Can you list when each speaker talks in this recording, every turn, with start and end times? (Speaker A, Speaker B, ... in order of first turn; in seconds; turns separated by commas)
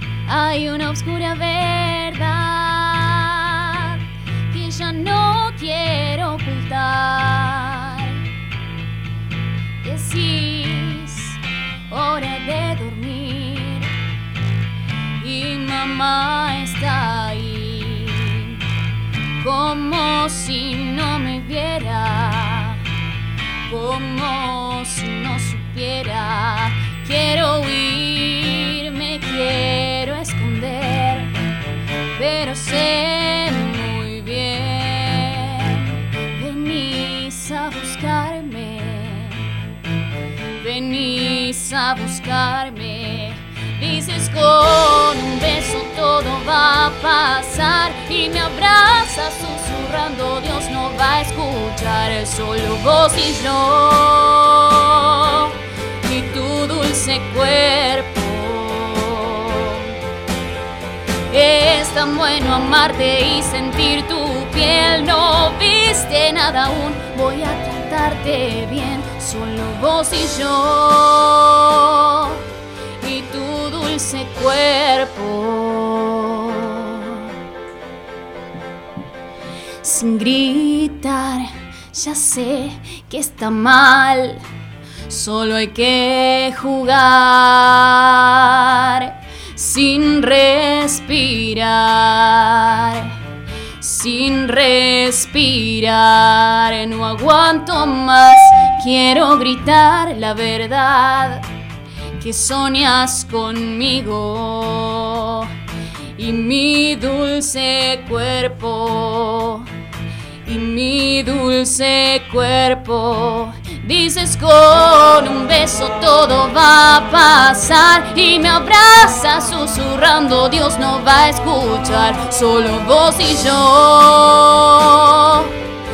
Speaker A: 0.3-4.0, Speaker A: 4.5-8.2, Speaker A: 9.8-11.4, Speaker A: 11.9-13.9, Speaker A: 15.2-18.6, Speaker A: 19.4-22.8, Speaker A: 23.7-31.3, Speaker A: 32.1-39.4, Speaker A: 40.6-59.9, Speaker A: 61.3-72.4, Speaker A: 73.0-77.3, Speaker A: 79.8-84.4, Speaker A: 85.1-93.1, Speaker A: 93.8-101.4, Speaker A: 102.2-105.5, Speaker A: 106.2-109.7, Speaker A: 110.5-125.5